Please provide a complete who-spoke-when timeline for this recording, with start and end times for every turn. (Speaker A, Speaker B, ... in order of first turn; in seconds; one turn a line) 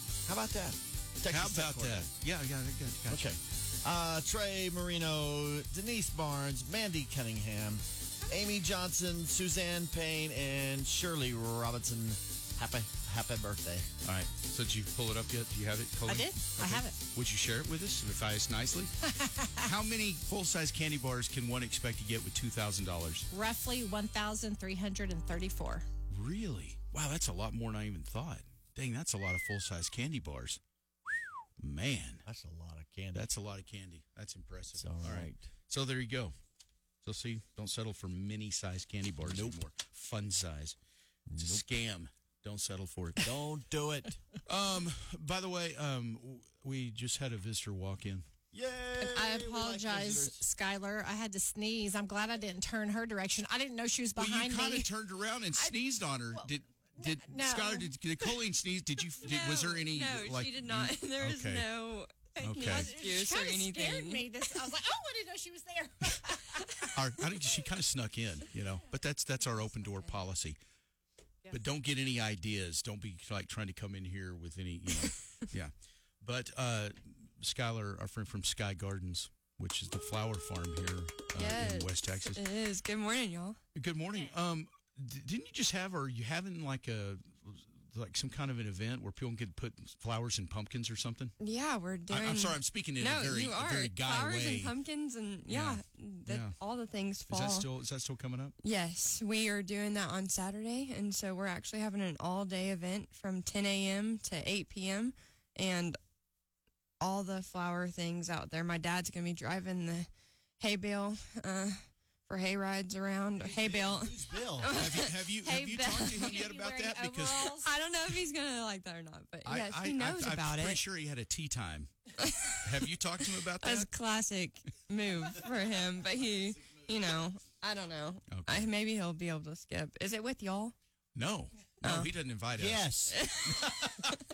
Speaker A: 0.2-2.1
Speaker B: 1.3-3.3
Speaker A: 3.1-13.9
Speaker B: 14.0-18.9
Speaker C: 16.1-17.0
Speaker C: 19.2-19.5
Speaker B: 19.6-23.3
Speaker C: 23.3-25.9
Speaker B: 26.1-30.6
Speaker B: 31.6-32.2
Speaker A: 32.2-33.3
Speaker B: 33.1-36.3
Speaker A: 34.8-35.5
Speaker B: 37.0-40.8
Speaker A: 39.2-39.6
Speaker A: 41.3-41.6
Speaker B: 41.4-43.3
Speaker A: 43.2-44.2
Speaker B: 44.5-48.2
Speaker A: 48.5-50.4
Speaker C: 49.0-54.9
Speaker B: 54.2-61.7
Speaker C: 57.0-58.4
Speaker D: 59.2-64.2
Speaker C: 62.4-66.8
Speaker B: 62.4-62.9
Speaker B: 66.9-70.6
Speaker C: 69.5-70.1
Speaker B: 71.5-82.4
Speaker D: 81.3-83.6
Speaker B: 83.7-91.3
Speaker D: 91.4-97.7
Speaker B: 92.1-94.7
Speaker B: 95.5-96.5
Speaker B: 97.3-98.5
Speaker D: 98.6-106.0
Speaker D: 107.0-110.1
Speaker D: 110.6-116.3
Speaker A: 113.4-114.8
Speaker B: 114.6-117.5
Speaker C: 115.9-117.7
Speaker D: 117.6-120.8
Speaker B: 119.4-121.9
Speaker D: 122.2-122.6
Speaker B: 122.5-123.9
Speaker D: 123.4-130.7
Speaker B: 128.3-128.7
Speaker B: 131.1-132.9
Speaker D: 131.8-132.1
Speaker A: 132.6-133.2
Speaker D: 133.1-133.8
Speaker B: 133.5-134.1